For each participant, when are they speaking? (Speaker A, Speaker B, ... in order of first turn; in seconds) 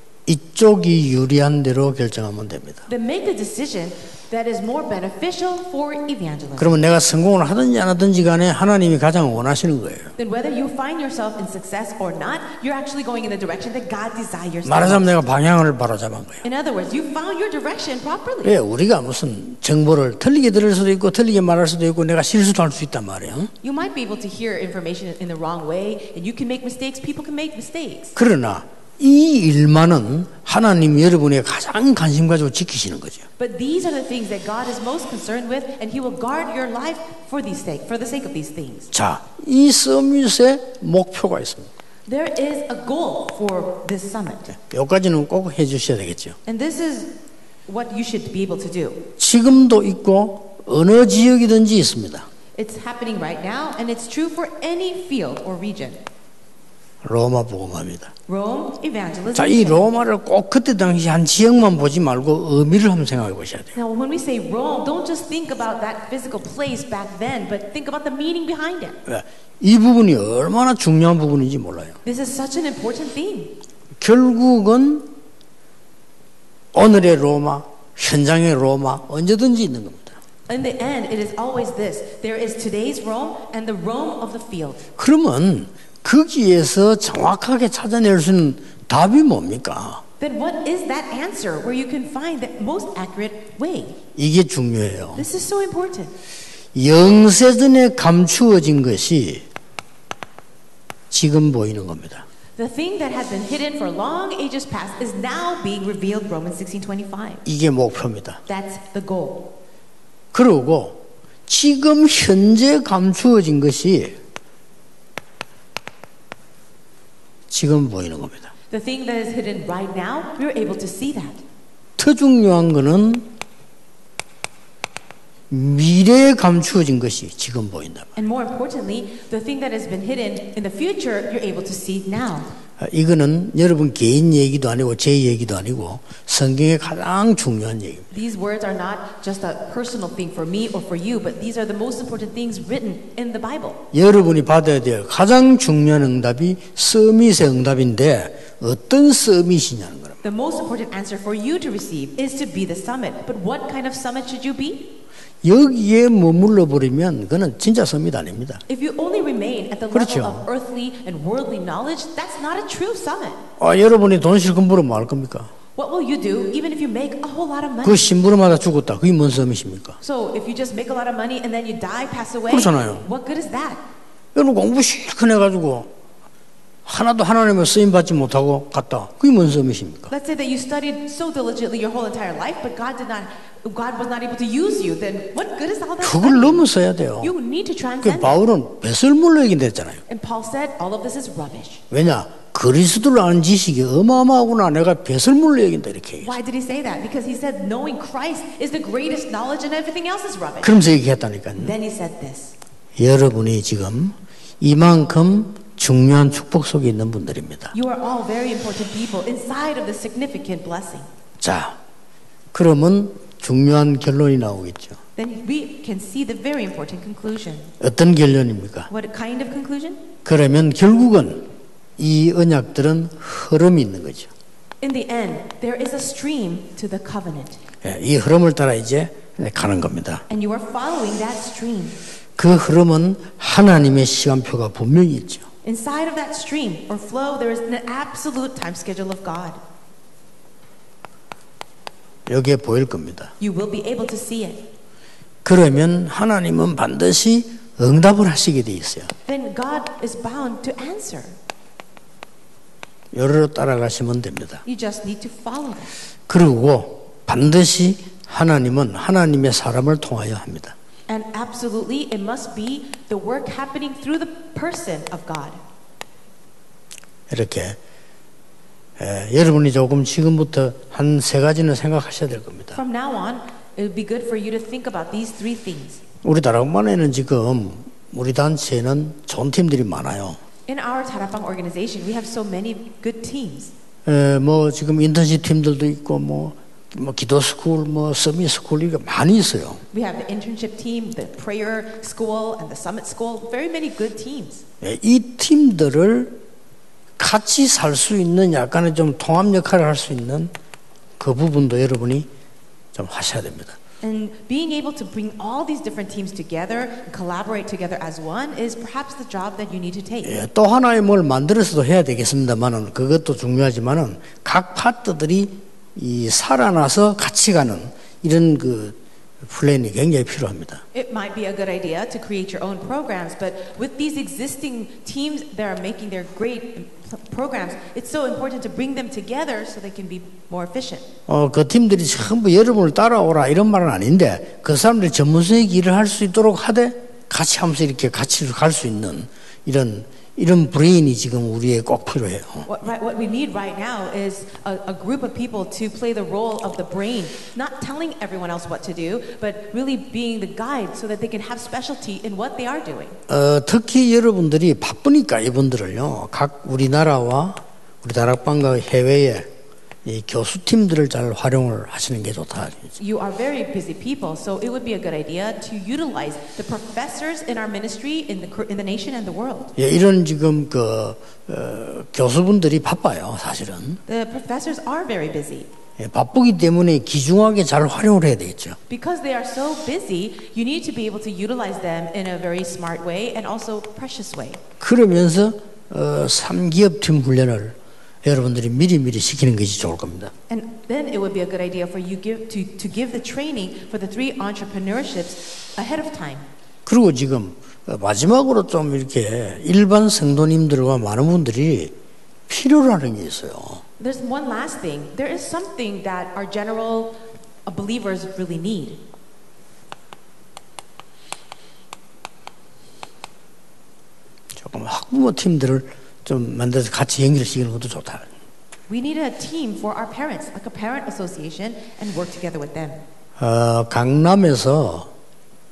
Speaker A: 0.3-2.8, 6.6-10.1, 14.6-16.4, 18.4-23.5, 28.1-33.2, 38.9-41.7, 44.5-46.4, 49.2-52.3, 57.0-58.1, 59.3-63.7, 69.0-72.0, 74.0-75.1, 76.7-80.2, 85.0-90.0, 94.1-95.2, 96.7-99.5, 101.1-102.2, 107.4-108.4, 110.3-114.2, 117.5-118.5, 122.0-123.3, 125.5-128.1, 132.8-138.1, 143.9-150.2, 155.4-158.6, 159.9-160.5, 163.6-165.5, 167.8-170.0, 172.5-173.1, 174.3-175.9, 176.8-180.1, 186.0-187.3, 188.0-190.0, 191.9-196.3, 200.6-201.7, 202.9-207.7, 211.4-211.8, 212.5-215.0, 217.8-218.9, 220.2-224.3, 227.8-230.2, 232.4-235.5, 242.3-243.3, 245.4-249.1, 253.1-254.6, 256.3-260.7, 267.3-267.8, 269.0-272.8, 276.2-280.4, 284.1-289.8, 294.8-296.4, 297.2-300.5, 301.2-302.3, 302.9-303.8, 310.2-320.8, 331.3-342.7, 353.3-359.5, 360.0-362.9, 369.8-374.0, 376.0-378.8, 384.8-390.3, 396.9-401.9, 402.5-403.8, 414.6-418.3, 423.4-425.1
Speaker B: 2.9-6.8, 10.2-15.1, 16.4-18.6, 23.6-28.1, 33.4-38.9, 42.1-44.5, 46.5-47.1, 47.7-49.0, 52.5-56.0, 58.3-59.9, 63.7-69.0, 72.0-73.5, 80.5-84.8, 90.2-94.0, 95.1-96.1, 102.6-107.4, 108.5-109.5, 118.7-121.4, 128.2-132.5, 138.1-143.8, 150.2-154.9, 158.7-163.4, 165.8-168.0, 170.0-173.8, 180.1-186.7, 187.2-188.4, 190.1-191.8, 196.2-200.8, 201.6-202.5, 207.7-211.1, 215.2-217.7, 218.9-220.1, 224.8-227.6, 230.3-232.0, 235.6-239.6, 243.4-244.7, 249.2-251.3, 254.6-255.9, 261.1-265.6, 272.7-276.0, 280.7-283.7, 289.9-294.6, 304.0-310.4, 320.9-331.1, 342.6-353.2, 363.0-369.7, 374.1-375.7, 378.9-384.6, 390.5-396.4, 404.0-409.0, 418.9-423.0